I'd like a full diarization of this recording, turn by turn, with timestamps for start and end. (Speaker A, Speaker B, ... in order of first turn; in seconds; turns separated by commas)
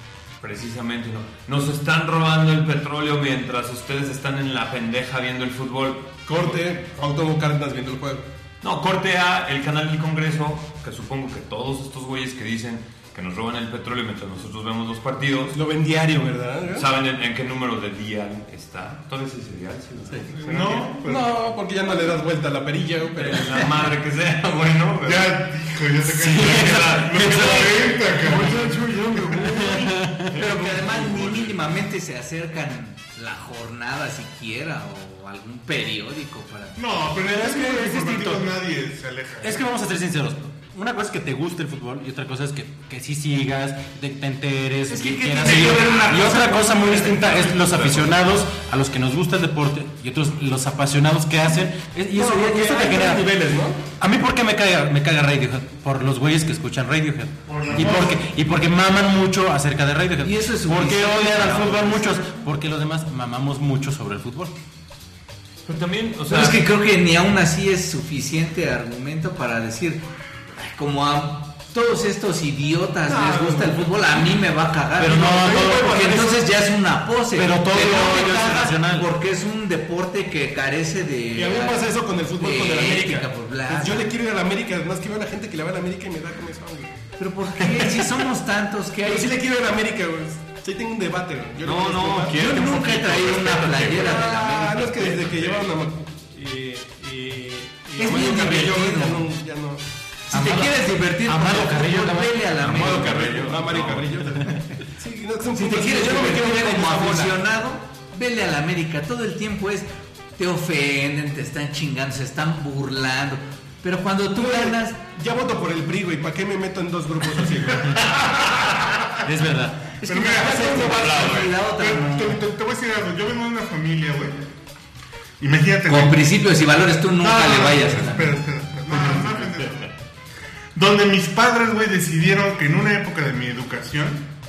Speaker A: 0.4-6.6, Speaker B: 6.3-8.2, Speaker A: 8.6-15.6, Speaker B: 15.5-16.9, Speaker A: 16.8-20.9, Speaker C: 20.4-21.3, Speaker B: 21.0-23.8, Speaker A: 23.2-25.4, Speaker C: 25.0-29.4, Speaker D: 26.1-27.7, Speaker A: 26.4-31.8, Speaker D: 29.4-30.4, Speaker E: 30.3-36.8, Speaker C: 36.8-39.6, Speaker D: 37.3-38.5, Speaker D: 39.4-53.3, Speaker E: 44.9-46.5, Speaker B: 45.0-47.5, Speaker A: 45.7-46.2, Speaker A: 47.1-48.1, Speaker B: 52.1-53.8, Speaker D: 54.0-64.5, Speaker C: 57.5-58.3, Speaker E: 60.2-62.4, Speaker A: 65.7-66.6, Speaker E: 66.3-84.1, Speaker B: 73.0-73.9, Speaker D: 75.0-76.3, Speaker B: 75.4-76.4, Speaker D: 77.3-79.1, Speaker B: 81.3-87.0, Speaker E: 87.2-89.4, Speaker B: 87.6-88.1, Speaker B: 89.0-92.6, Speaker A: 91.6-94.2, Speaker E: 92.3-94.9, Speaker B: 93.7-99.9, Speaker A: 94.8-95.7, Speaker E: 98.0-99.3, Speaker D: 100.3-104.6, Speaker E: 100.3-103.3, Speaker A: 102.6-104.1, Speaker B: 102.8-107.4, Speaker E: 105.5-115.0, Speaker B: 114.3-118.2, Speaker C: 118.4-119.0, Speaker D: 119.2-120.9, Speaker C: 120.0-124.5, Speaker E: 120.1-122.4, Speaker B: 120.2-121.3, Speaker A: 120.9-121.5, Speaker C: 125.4-126.3, Speaker E: 125.9-128.3, Speaker C: 127.1-129.9, Speaker C: 130.8-134.3